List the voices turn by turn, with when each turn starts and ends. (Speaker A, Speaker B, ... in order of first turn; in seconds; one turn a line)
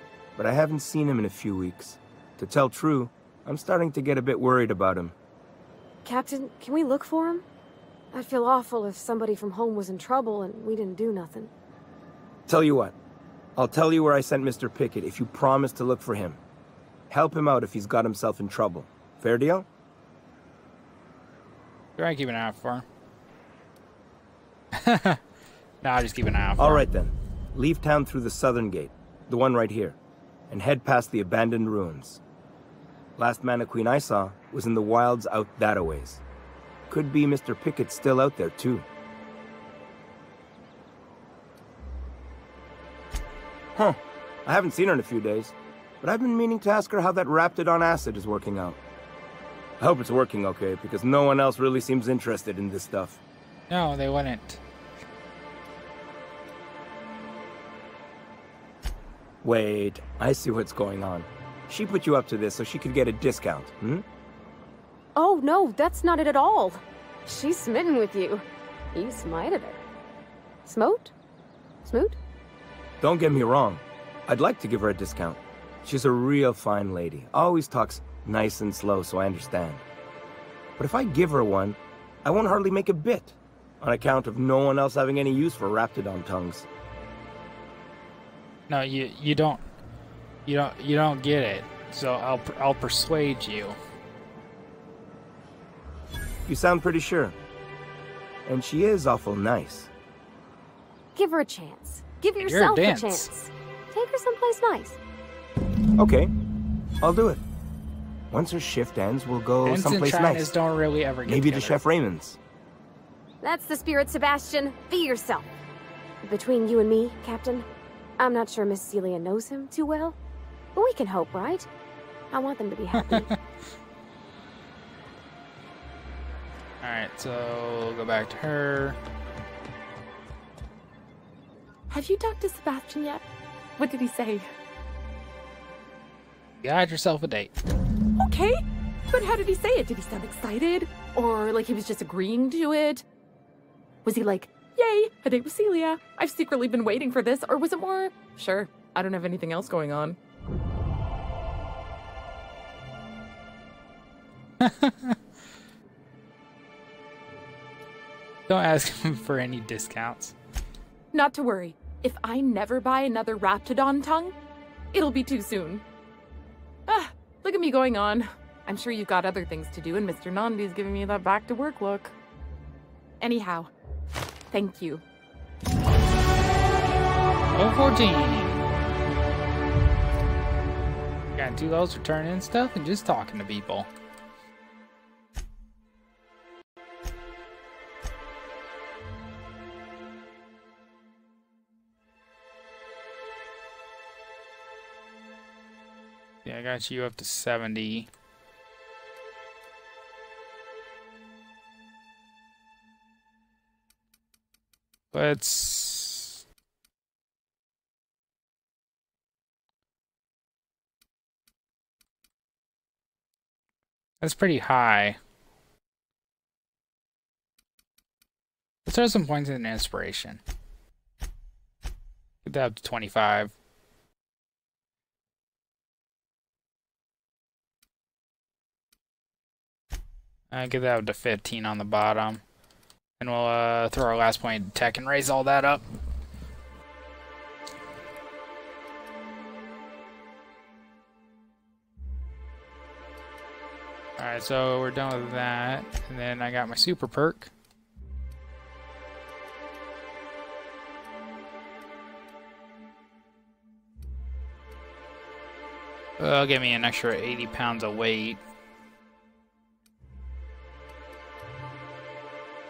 Speaker A: 0.4-5.1
Speaker B: 6.0-7.4
Speaker B: 8.1-11.5
Speaker A: 12.5-12.9
Speaker A: 13.6-16.4
Speaker A: 17.1-19.7
Speaker C: 22.0-22.9
Speaker C: 24.7-25.2
Speaker C: 25.8-26.9
Speaker A: 26.6-30.0
Speaker A: 30.5-32.2
Speaker A: 33.2-36.2
Speaker A: 36.9-38.9
Speaker A: 43.8-48.8
Speaker A: 49.8-53.2
Speaker C: 53.7-54.6
Speaker A: 59.4-64.0
Speaker B: 65.2-69.8
Speaker B: 70.7-71.1
Speaker B: 71.8-72.2
Speaker A: 73.0-79.8
Speaker A: 80.8-86.7
Speaker C: 88.7-89.6
Speaker C: 90.5-93.8
Speaker A: 96.5-97.3
Speaker A: 98.5-99.9
Speaker B: 101.2-105.0
Speaker C: 102.4-103.3
Speaker A: 106.0-106.3
Speaker A: 107.0-107.4
Speaker A: 108.3-110.5
Speaker C: 109.6-111.8
Speaker A: 111.3-112.4
Speaker B: 113.4-115.5
Speaker B: 116.2-117.7
Speaker B: 118.2-120.2
Speaker B: 120.8-121.7
Speaker B: 122.3-123.3
Speaker C: 123.0-123.4
Speaker C: 126.8-129.0
Speaker D: 131.9-133.2
Speaker D: 133.8-134.5
Speaker C: 136.6-137.5
Speaker D: 138.2-138.6
Speaker D: 139.1-143.0
Speaker D: 144.1-150.2
Speaker C: 154.6-155.2
Speaker C: 158.5-160.3
Speaker D: 161.1-164.3
Speaker D: 164.9-165.8
Speaker D: 166.9-172.1
Speaker D: 173.2-173.7
Speaker D: 174.5-175.0
Speaker C: 177.6-178.7
Speaker C: 181.3-183.9
Speaker C: 196.4-198.1
Speaker C: 205.1-206.4
Speaker C: 214.2-215.2
Speaker C: 218.9-220.4
Speaker C: 222.4-223.5
Speaker C: 230.5-232.4
Speaker C: 233.2-235.8
Speaker C: 244.2-247.5
Speaker C: 256.2-258.4